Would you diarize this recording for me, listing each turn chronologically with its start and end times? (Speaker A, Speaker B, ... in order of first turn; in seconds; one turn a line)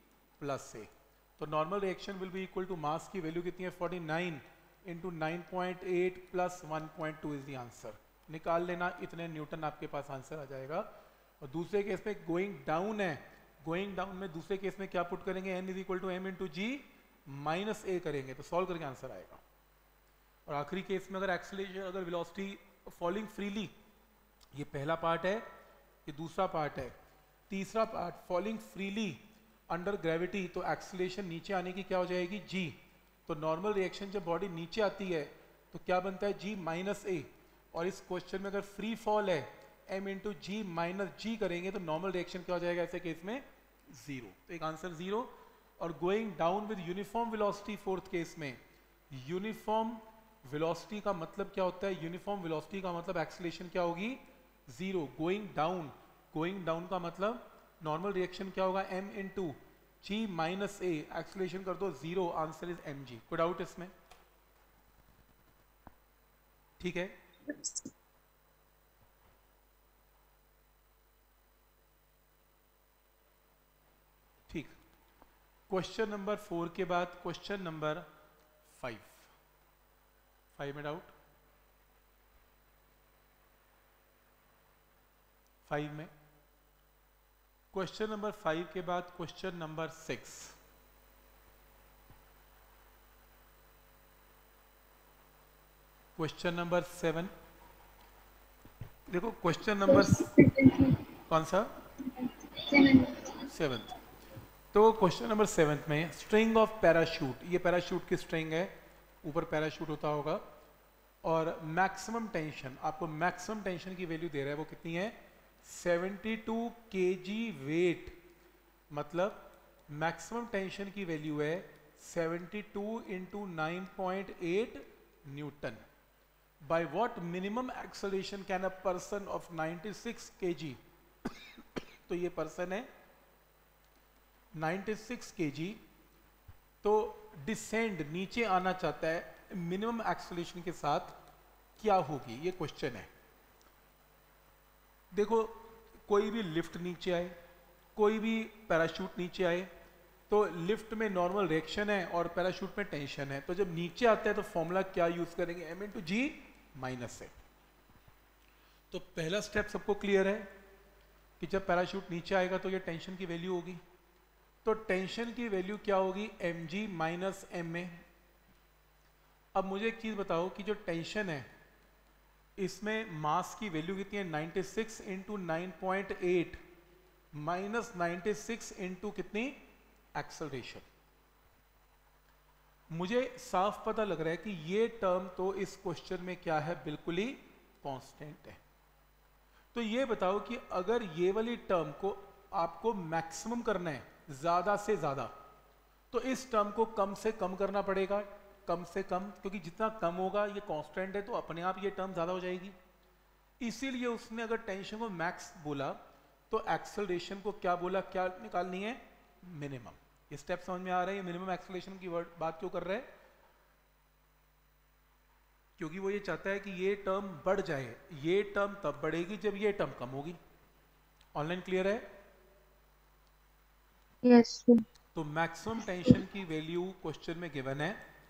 Speaker A: 0.4-10.9
Speaker A: 11.4-19.4
Speaker A: 20.5-23.7
Speaker A: 24.6-25.4
Speaker A: 26.1-26.9
Speaker A: 27.5-29.2
Speaker A: 29.7-48.6
Speaker A: 49.1-63.9
Speaker A: 66.8-67.2
Speaker B: 67.5-67.9
Speaker A: 74.5-74.7
Speaker A: 75.7-78.1
Speaker A: 78.7-79.3
Speaker A: 80.5-81.1
Speaker A: 85.7-86.1
Speaker A: 87.7-90.6
Speaker A: 96.2-97.3
Speaker A: 99.1-100.3
Speaker B: 99.8-101.0
Speaker A: 101.3-101.7
Speaker B: 102.1-103.4
Speaker A: 103.5-104.0
Speaker A: 104.7-108.7
Speaker A: 109.2-110.4
Speaker A: 111.2-118.2
Speaker A: 118.9-125.8
Speaker A: 126.6-130.8
Speaker A: 132.1-132.9
Speaker A: 134.6-135.8
Speaker A: 136.8-141.1
Speaker A: 141.8-143.1
Speaker A: 145.1-147.3
Speaker A: 148.0-149.7
Speaker A: 150.3-157.3
Speaker A: 158.9-160.5
Speaker A: 161.4-163.8
Speaker A: 164.6-168.0
Speaker A: 169.6-171.5
Speaker A: 172.6-176.6
Speaker A: 177.3-179.6
Speaker A: 180.2-180.9
Speaker A: 182.9-188.6
Speaker A: 189.7-195.3
Speaker A: 196.1-202.8
Speaker A: 203.6-206.0
Speaker A: 206.5-213.1
Speaker A: 215.8-220.4
Speaker A: 221.3-222.1
Speaker B: 224.2-224.8
Speaker A: 225.2-228.0